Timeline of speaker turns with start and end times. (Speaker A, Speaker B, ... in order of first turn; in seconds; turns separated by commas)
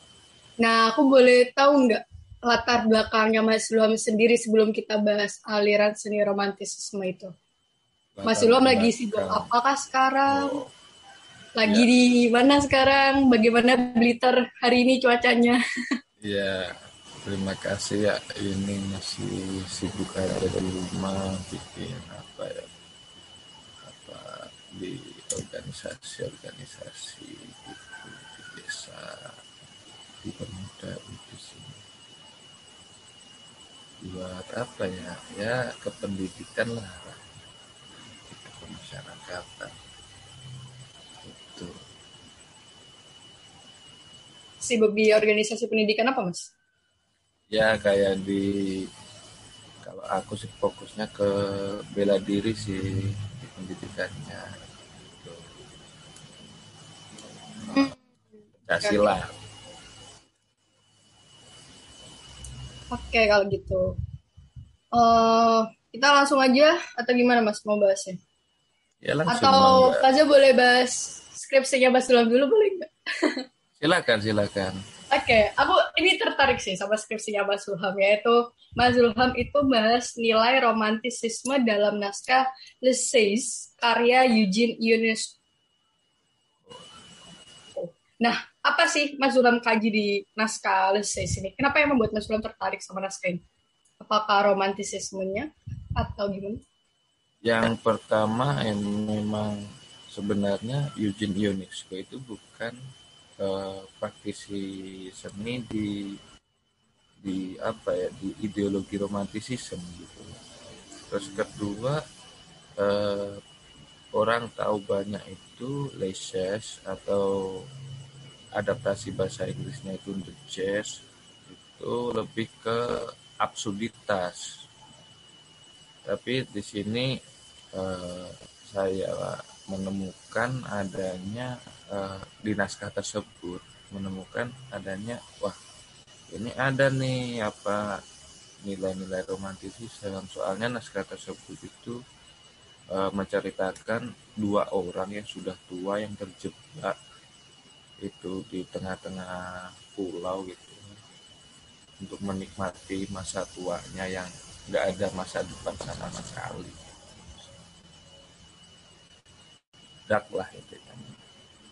Speaker A: 0.6-7.3, Speaker B: 8.2-9.5, Speaker A: 8.2-10.6, Speaker B: 10.3-10.7, Speaker A: 11.6-15.6, Speaker B: 16.2-22.7, Speaker B: 23.8-29.4, Speaker B: 30.2-31.8, Speaker B: 34.0-37.2, Speaker B: 38.3-39.7, Speaker B: 41.2-41.8, Speaker A: 44.6-46.5, Speaker B: 47.5-48.9, Speaker B: 49.8-54.5, Speaker B: 55.1-55.4, Speaker B: 58.6-59.3, Speaker A: 58.8-59.1, Speaker A: 62.9-63.9, Speaker A: 64.9-68.2, Speaker B: 69.0-70.0, Speaker A: 69.3-73.4, Speaker B: 73.8-74.8, Speaker A: 75.1-85.3, Speaker A: 87.7-93.4, Speaker A: 94.0-96.6, Speaker B: 97.4-102.8, Speaker B: 103.4-106.2, Speaker B: 107.2-110.4, Speaker B: 111.1-112.0, Speaker B: 112.8-113.4, Speaker B: 114.1-117.7, Speaker B: 118.6-124.5, Speaker B: 126.0-127.1, Speaker B: 127.7-135.6, Speaker B: 136.3-138.0, Speaker B: 138.6-142.0, Speaker B: 142.9-146.9, Speaker B: 148.0-151.0, Speaker B: 152.0-156.8, Speaker B: 160.1-161.1